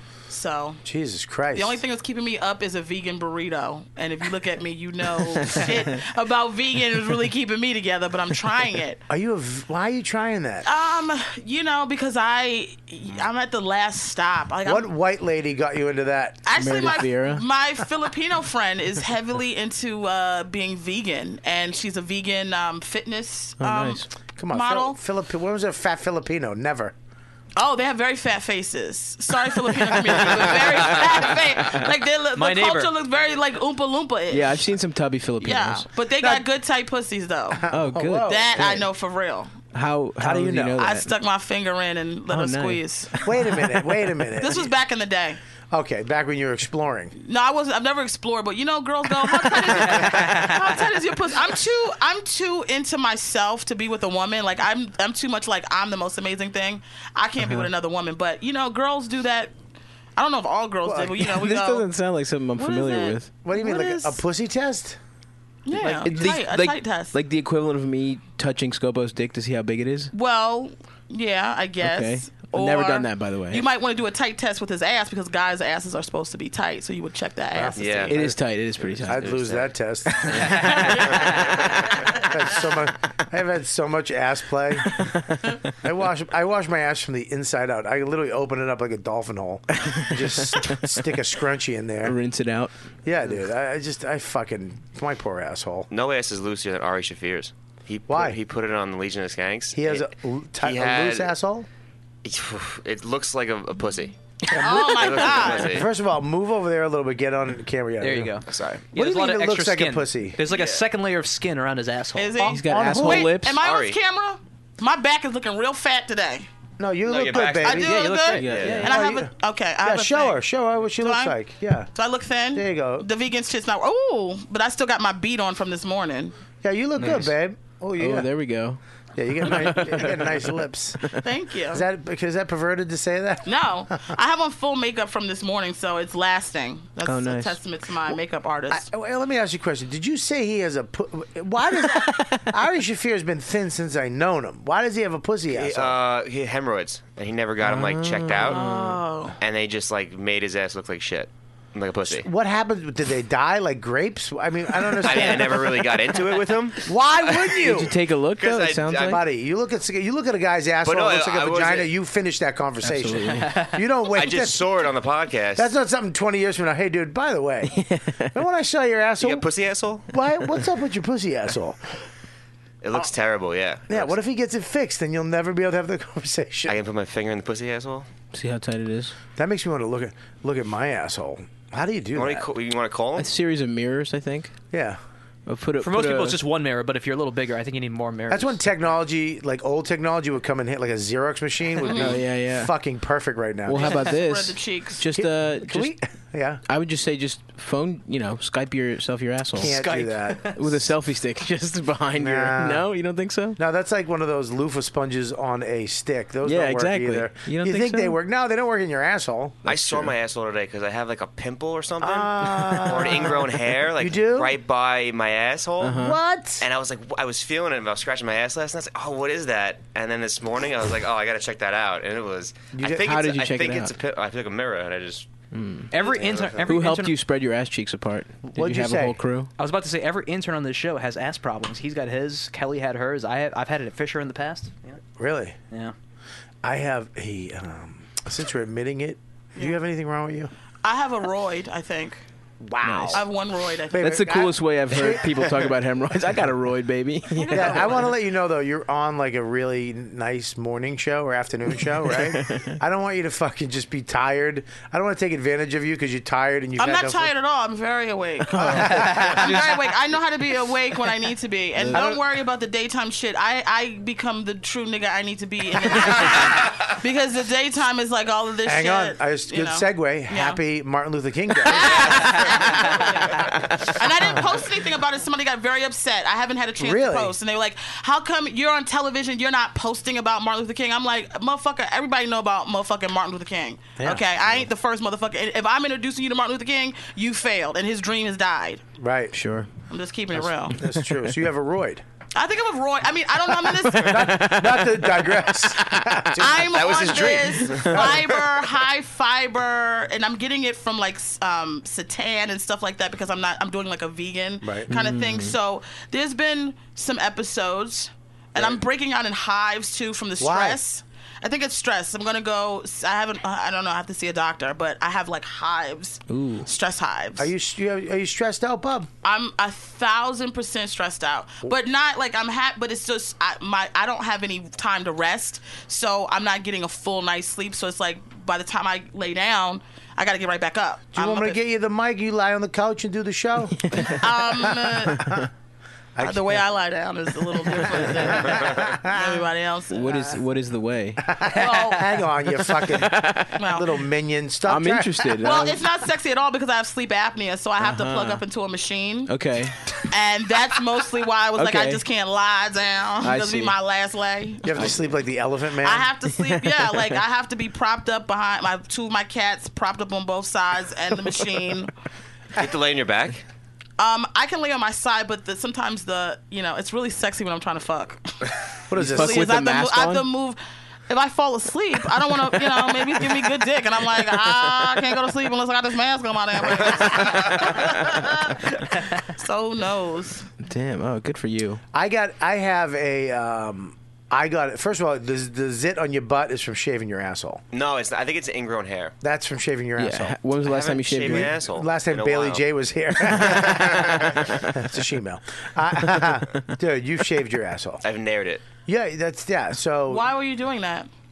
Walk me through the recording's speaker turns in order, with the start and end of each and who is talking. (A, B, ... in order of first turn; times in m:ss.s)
0:00.3-0:00.8 A
0:00.8-0:01.8 B
0:01.5-0:09.0 A
0:05.4-0:05.8 C
0:09.1-0:10.7 B
0:10.6-0:14.9 A
0:14.6-0:17.0 B
0:16.4-0:25.0 A
0:16.6-0:17.4 C
0:23.6-0:24.1 C
0:24.4-0:26.9 B
0:27.6-0:34.6 A
0:31.6-0:31.8 C
0:32.3-0:32.9 D
0:34.3-0:35.9 C
0:35.4-0:37.6 A
0:36.2-0:36.4 B
0:37.5-0:38.8 B
0:37.7-0:38.7 C
0:38.2-0:39.6 A
0:39.7-0:41.1 C
0:40.2-0:40.8 B
0:40.8-0:43.1 A
0:42.3-0:43.7 C
0:43.2-0:44.7 B
0:44.4-0:45.4 A
0:45.7-0:47.1 B
0:47.2-0:59.5 A
0:50.0-0:50.5 D
0:57.4-0:57.7 C
1:00.2-1:01.8 A
1:00.8-1:01.2 B
1:01.2-1:03.3 C
1:02.6-1:04.2 A
1:03.4-1:05.0 B
1:05.7-1:07.2 A
1:05.7-1:06.3 B
1:06.0-1:10.1 C
1:10.1-1:18.0 A
1:11.8-1:13.6 C
1:17.6-1:18.4 B
1:17.8-1:18.2 E
1:18.1-1:19.3 C
1:18.8-1:19.7 E
1:19.0-1:25.1 B
1:20.3-1:21.2 C
1:20.8-1:21.4 A
1:25.8-1:32.2 B
1:29.9-1:30.8 C
1:32.0-1:32.7 C
1:33.0-1:35.9 B
1:35.9-1:40.1 E
1:38.1-1:38.4 B
1:39.7-1:41.7 B
1:40.6-1:41.3 E
1:42.2-1:45.9 E
1:44.5-1:48.4 B
1:44.5-1:45.7 A
1:48.0-1:52.5 D
1:48.5-1:48.8 E
1:48.9-1:50.4 B
1:50.5-1:50.8 E
1:52.2-1:56.5 A
1:52.4-1:53.6 C
1:52.5-1:53.4 B
1:53.6-1:54.0 E
1:56.8-1:58.1 B
1:57.1-1:58.8 E
1:57.6-2:00.4 A
1:57.9-1:58.9 D
1:58.3-1:59.0 C
1:58.8-1:59.3 B
1:59.8-2:01.9 B
2:01.0-2:01.4 A
2:01.9-2:06.3 A
2:02.5-2:03.1 B
2:06.6-2:08.3 B
2:07.0-2:07.3 C
2:08.0-2:08.8 C
2:09.2-2:11.1 B
2:09.4-2:11.2 C
2:11.2-2:11.8 A
2:11.7-2:14.1 B
2:13.4-2:18.8 A
2:17.0-2:17.6 C
2:18.7-2:26.0 B
2:25.5-2:28.6 E
2:27.6-2:29.0 C
2:28.5-2:29.4 A
2:29.4-2:32.3 E
2:32.1-2:36.0 B
2:35.0-2:37.7 E
2:36.8-2:37.9 B
2:37.6-2:39.2 C
2:38.4-2:39.2 E
2:39.0-2:44.7 B
2:40.8-2:41.9 E
2:42.9-2:43.6 C
2:44.1-2:45.7 E
2:45.6-2:47.8 B
2:47.7-2:48.3 C
2:48.3-2:49.5 B
2:49.2-2:50.1 E
2:50.1-2:51.8 B
2:52.8-2:54.2 E
2:53.9-2:56.8 B
2:56.7-2:58.1 E
2:58.3-2:59.1 C
2:59.4-3:02.5 B
3:02.2-3:03.3 E
3:03.2-3:04.6 C
3:04.7-3:05.0 B
3:05.5-3:06.4 C
3:05.8-3:08.6 D
3:08.3-3:14.0 B
3:11.8-3:12.2 A
3:11.9-3:12.7 C
3:13.6-3:15.9 C
3:13.8-3:15.0 A
3:15.1-3:16.6 B
3:16.7-3:19.8 C
3:19.6-3:20.9 B
3:19.6-3:20.6 D
3:20.6-3:23.6 C
3:22.2-3:22.9 B
3:23.6-3:30.1 B
3:26.4-3:28.2 C
3:29.7-3:36.0 E
3:32.0-3:34.5 B
3:35.8-3:36.2 C
3:35.9-3:36.7 B
3:36.6-3:45.2 E
3:42.7-3:43.2 B
3:43.0-3:43.9 C
3:45.5-3:45.9 C
3:45.9-3:47.2 D
3:46.0-3:46.7 E
3:46.7-3:49.5 C
3:48.5-3:49.2 B
3:49.6-3:55.0 D
3:55.2-3:55.6 B
3:56.6-4:00.5 B
4:00.8-4:02.2 A
4:02.6-4:03.2 B
4:02.8-4:03.2 C
4:03.1-4:04.2 A
4:03.9-4:05.8 B
4:04.0-4:07.9 C
4:07.3-4:08.2 A
4:07.5-4:17.3 B
4:12.2-4:12.8 C
4:16.8-4:30.6 A
4:18.6-4:19.6 B
4:18.9-4:19.8 D
4:21.8-4:22.1 C
4:21.9-4:22.2 B
4:28.6-4:34.5 B
4:31.6-4:48.8 A
4:36.8-4:37.4 B
4:44.0-4:44.6 B
4:49.0-4:49.4 B
4:49.3-4:49.7 C
4:49.9-4:50.8 A
4:50.3-4:52.0 B
4:50.8-4:51.2 C
4:52.4-4:54.4 A
4:53.6-4:55.3 C
4:54.0-4:58.3 B
4:56.4-5:17.5 A
4:56.7-4:58.2 E
5:04.6-5:04.9 B
5:04.9-5:05.6 C
5:10.4-5:10.8 B
5:16.3-5:16.7 C
5:17.4-5:19.1 B
5:19.2-5:31.6 A
5:31.1-5:35.5 B
5:33.9-5:34.2 C
5:34.0-5:35.4 A
5:35.2-5:35.5 C
5:36.2-5:36.6 B
5:36.2-5:40.2 A
5:37.7-5:38.3 C
5:37.8-5:39.4 B
5:39.9-5:41.3 C
5:41.2-5:45.5 B
5:41.5-5:42.1 A
5:42.5-5:43.6 C
5:43.6-5:43.9 A
5:44.7-5:45.8 C
5:45.4-5:49.3 A
5:47.8-5:48.4 C
5:49.3-5:49.9 C
5:50.1-5:54.9 A
5:51.6-5:52.0 C
5:53.2-5:53.8 C
5:54.6-5:56.1 B
5:55.8-6:01.9 A
5:56.5-5:57.0 C
6:02.6-6:03.4 E
6:04.0-6:08.5 A
6:08.9-6:09.6 B
6:08.9-6:10.3 C
6:09.2-6:20.5 A
6:20.6-6:21.8 C
6:21.9-6:27.6 B
6:27.7-6:29.1 E
6:29.2-6:30.4 B
6:30.0-6:31.5 C
6:30.6-6:32.6 E
6:31.2-6:38.0 B
6:33.4-6:34.6 C
6:33.7-6:34.4 E
6:38.0-6:38.6 E
6:38.9-6:40.3 B
6:40.1-6:41.1 A